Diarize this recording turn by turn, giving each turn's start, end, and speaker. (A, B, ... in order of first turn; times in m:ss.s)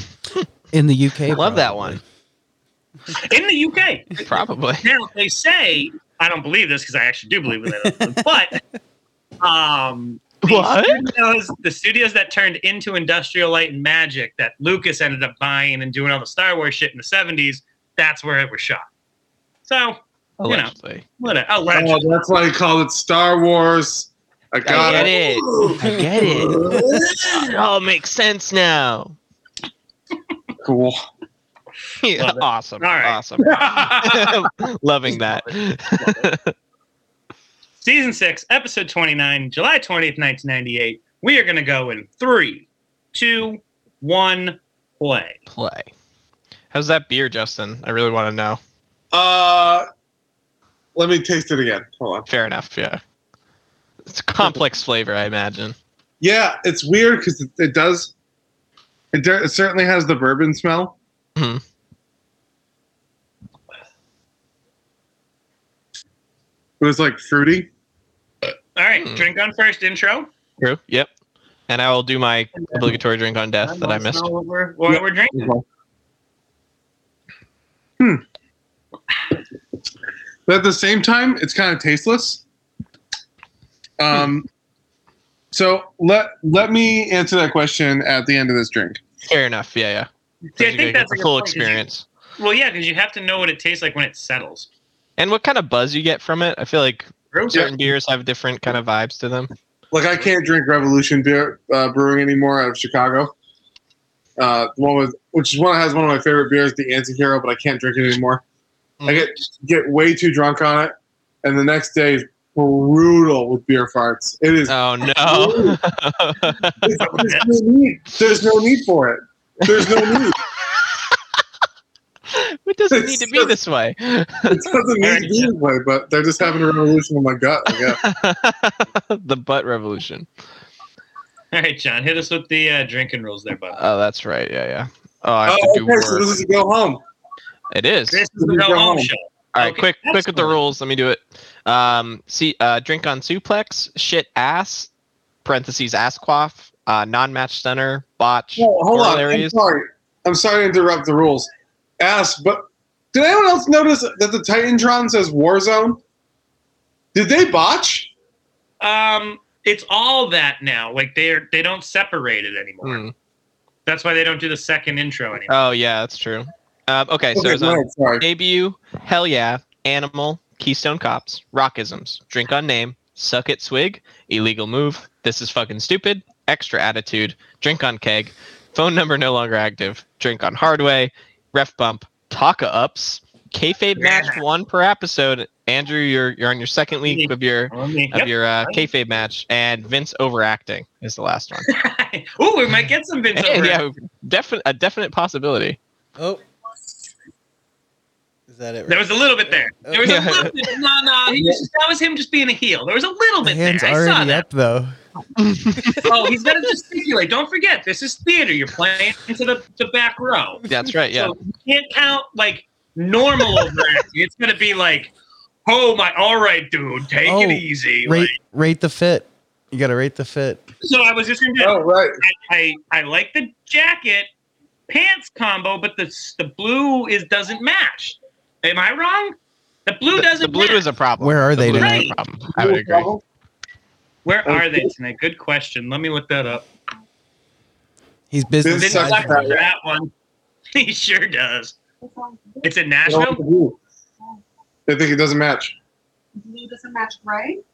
0:00.7-0:02.0 A
0:01.3-0:02.0 B
0:03.1-0:04.3 C
0:04.2-0:04.9 B
0:04.8-0:08.6 C
0:09.4-0:18.8 C
0:10.4-0:11.0 B
0:19.7-0:22.1 C
0:20.4-0:21.1 B
0:21.7-0:27.1 D
0:24.6-0:29.2 B
0:24.7-0:25.7 C
0:26.8-0:27.4 C
0:30.6-0:31.0 D
0:32.0-0:36.5 B
0:32.2-0:34.3 C
0:33.5-0:34.4 D
0:37.8-0:45.4 C
0:45.5-0:45.9 B
0:46.7-0:48.6 B
0:49.1-0:49.8 D
0:50.9-0:52.3 D
0:52.3-0:53.0 B
0:54.0-0:55.8 B
0:56.2-0:58.1 D
0:59.1-1:01.0 D
1:01.4-1:01.6 B
1:06.8-1:07.7 D
1:08.7-1:10.3 C
1:10.6-1:11.1 B
1:11.7-1:14.2 B
1:12.7-1:12.9 C
1:13.6-1:15.5 C
1:14.9-1:15.6 D
1:20.5-1:22.4 D
1:24.0-1:24.4 D
1:25.5-1:29.0 D
1:29.2-1:32.0 B
1:30.6-1:31.8 C
1:32.4-1:34.7 C
1:35.2-1:39.5 B
1:37.3-1:37.7 C
1:39.9-1:43.3 D
1:44.4-1:48.4 D
1:49.0-1:49.3 B
1:49.0-1:55.8 D
1:54.7-1:56.8 B
1:56.8-2:00.4 D
1:57.0-1:57.5 C
1:59.7-2:00.2 B
2:02.3-2:04.6 B
2:02.9-2:03.5 D
2:04.5-2:08.0 D
2:05.0-2:05.5 C
2:07.9-2:10.3 B
2:11.5-2:13.8 C
2:13.7-2:16.3 B
2:15.4-2:17.0 D
2:17.7-2:18.2 B
2:18.1-2:20.6 C
2:18.4-2:19.1 D
2:19.5-2:24.9 B
2:25.4-2:29.5 B
2:28.6-2:31.5 D
2:32.0-2:36.0 D
2:37.1-2:38.1 D
2:38.8-2:43.0 C
2:42.8-2:43.1 B
2:43.8-2:45.5 C
2:45.5-3:11.7 B
2:47.3-2:48.3 D
3:04.0-3:04.4 C
3:07.0-3:08.9 C
3:11.6-3:13.8 C
3:13.3-3:15.8 B
3:18.5-3:20.5 A
3:18.9-3:24.4 C
3:20.0-3:20.5 B
3:21.3-3:21.6 D
3:23.4-3:24.9 A
3:25.4-3:26.1 B
3:26.0-3:35.1 C
3:30.7-3:31.3 B
3:35.6-3:38.3 C
3:37.2-3:40.6 A
3:40.8-3:44.3 C
3:41.6-3:42.2 D
3:44.9-3:49.3 C
3:49.8-3:50.8 C
3:50.1-3:53.1 B
3:51.2-3:52.1 A
3:51.7-3:52.2 C
3:52.5-3:53.2 D
3:54.2-3:56.6 C
3:54.4-3:54.9 D
3:58.3-3:59.6 A
3:58.6-3:59.6 D
3:58.8-4:00.1 C
4:00.7-4:01.7 C
4:02.0-4:02.7 E
4:02.6-4:03.4 C
4:03.1-4:03.8 D
4:04.9-4:05.7 D
4:06.4-4:07.6 E